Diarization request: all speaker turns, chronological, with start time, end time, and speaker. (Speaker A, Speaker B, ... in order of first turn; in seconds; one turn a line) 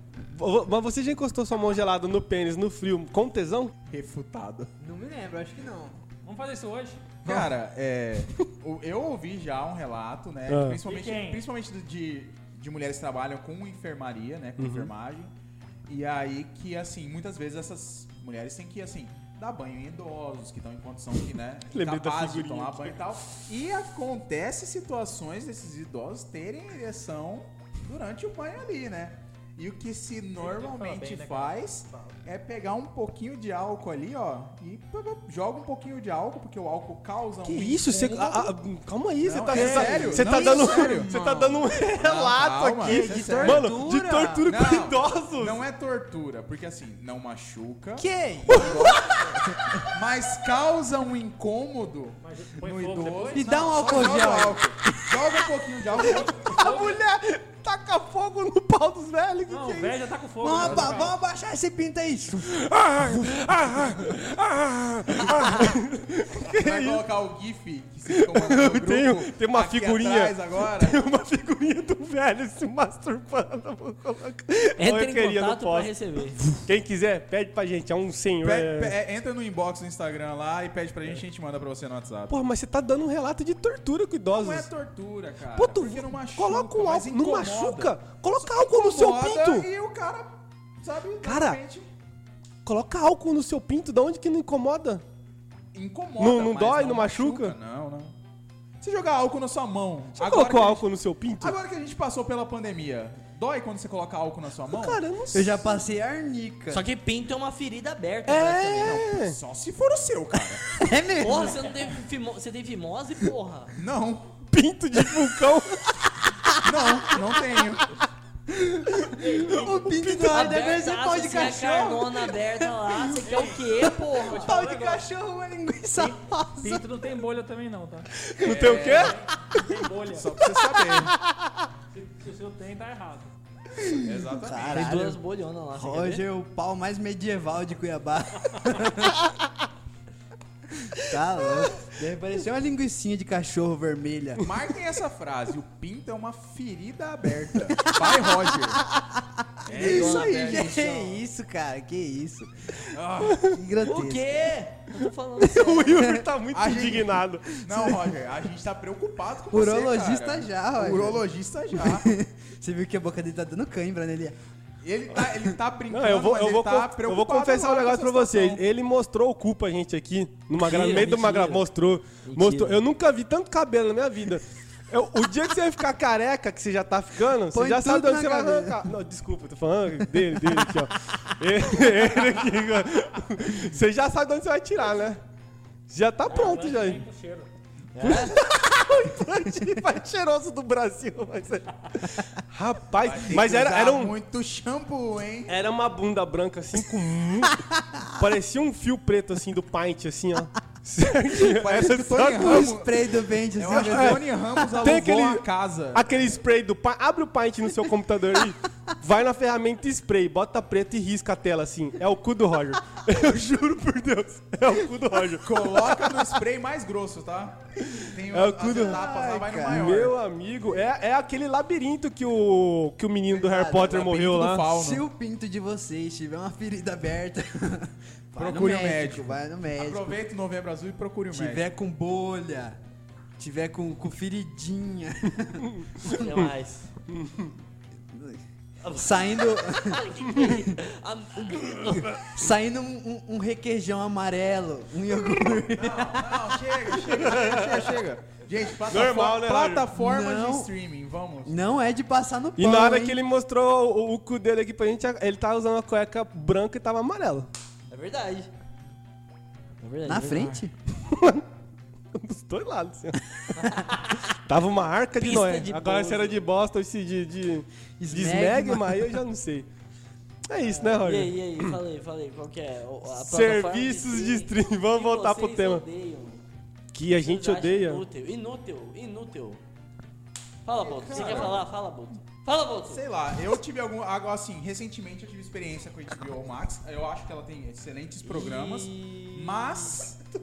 Speaker A: 0.3-3.7
Speaker B: 3.9-4.7
Speaker C: 4.8-6.0
Speaker D: 6.2-7.2
Speaker B: 7.2-15.3
Speaker A: 10.5-10.8
Speaker D: 10.8-11.4
Speaker A: 14.6-14.9
Speaker B: 15.9-38.5
Speaker A: 21.7-23.0
Speaker D: 30.4-32.1
Speaker A: 37.4-45.6
Speaker B: 39.2-41.1
Speaker C: 39.5-41.8
Speaker B: 41.8-43.7
Speaker C: 42.8-44.6
Speaker B: 44.5-49.1
Speaker C: 48.0-49.9
Speaker A: 48.5-49.0
Speaker B: 49.9-56.6
Speaker D: 52.2-53.9
Speaker C: 53.3-55.4
Speaker D: 56.0-57.0
Speaker A: 56.2-60.0
Speaker D: 59.5-61.2
Speaker C: 60.4-62.6
Speaker A: 60.5-61.0
Speaker A: 62.5-67.0
Speaker B: 66.4-71.0
Speaker A: 68.1-75.9
Speaker E: 74.8-76.5
Speaker A: 76.5-79.0
Speaker B: 78.4-82.3
Speaker A: 82.3-84.7
Speaker B: 84.3-91.9
Speaker A: 85.5-89.7
Speaker A: 91.2-91.6
Speaker A: 92.6-95.0
Speaker B: 95.7-98.1
Speaker A: 96.2-97.5
Speaker B: 98.8-100.8
Speaker A: 100.2-101.6
Speaker B: 101.4-105.0
Speaker A: 104.7-105.8
Speaker C: 105.3-106.8
Speaker E: 106.7-109.0
Speaker A: 108.2-109.3
Speaker B: 108.8-110.8
Speaker C: 110.8-111.6
Speaker E: 111.2-113.8
Speaker B: 113.8-114.3
Speaker A: 114.5-116.0
Speaker C: 116.5-117.3
Speaker B: 116.6-117.8
Speaker C: 118.5-126.8
Speaker D: 119.1-120.0
Speaker E: 120.0-124.5
Speaker D: 123.1-125.0
Speaker D: 126.0-130.4
Speaker A: 128.2-129.2
Speaker B: 128.4-129.3
Speaker B: 130.1-131.1
Speaker A: 130.4-131.6
Speaker D: 131.9-133.3
Speaker C: 133.7-135.2
Speaker B: 133.9-134.9
Speaker E: 134.7-136.2
Speaker C: 135.8-139.3
Speaker C: 140.8-144.4
Speaker B: 144.4-148.8
Speaker C: 147.7-154.4
Speaker B: 149.7-151.0
Speaker E: 149.7-151.2
Speaker B: 152.9-153.6
Speaker E: 153.8-156.1
Speaker A: 155.4-158.0
Speaker B: 156.5-162.1
Speaker C: 159.5-161.2
Speaker C: 161.8-164.4
Speaker B: 164.8-168.6
Speaker A: 165.9-185.2
Speaker E: 170.6-171.6
Speaker E: 172.2-172.8
Speaker C: 177.5-178.9
Speaker C: 180.3-180.7
Speaker A: 185.9-187.0
Speaker D: 186.2-187.5
Speaker E: 187.9-188.4
Speaker A: 188.0-194.1
Speaker B: 193.0-195.6
Speaker A: 195.5-202.8
Speaker C: 197.7-198.1
Speaker B: 201.4-206.2
Speaker C: 202.3-204.9
Speaker A: 203.7-204.2
Speaker A: 204.8-216.2
Speaker B: 215.4-220.1
Speaker A: 217.8-219.0
Speaker C: 218.7-220.1
Speaker A: 219.6-224.7
Speaker C: 223.3-230.2
Speaker B: 223.8-225.0
Speaker B: 228.3-231.7
Speaker C: 231.3-232.8
Speaker C: 233.4-236.2
Speaker A: 235.9-236.5
Speaker E: 236.0-236.9
Speaker A: 237.1-237.5
Speaker C: 238.1-240.6
Speaker E: 238.8-242.2
Speaker A: 241.7-242.2
Speaker C: 242.0-247.3
Speaker B: 245.6-251.5
Speaker A: 247.1-247.9
Speaker A: 248.8-249.9
Speaker C: 249.9-250.7
Speaker C: 251.4-253.2
Speaker A: 252.6-257.5
Speaker E: 257.9-258.5
Speaker E: 259.8-260.6
Speaker C: 260.1-260.7
Speaker A: 261.1-261.5
Speaker A: 262.1-269.7
Speaker E: 263.5-264.2
Speaker E: 265.2-266.4
Speaker C: 268.0-269.2
Speaker A: 270.5-271.8
Speaker E: 270.7-276.4
Speaker A: 273.1-275.8
Speaker A: 276.9-278.0
Speaker E: 277.1-279.6
Speaker E: 280.6-283.0
Speaker B: 280.8-281.6
Speaker B: 282.9-290.2
Speaker E: 288.2-289.7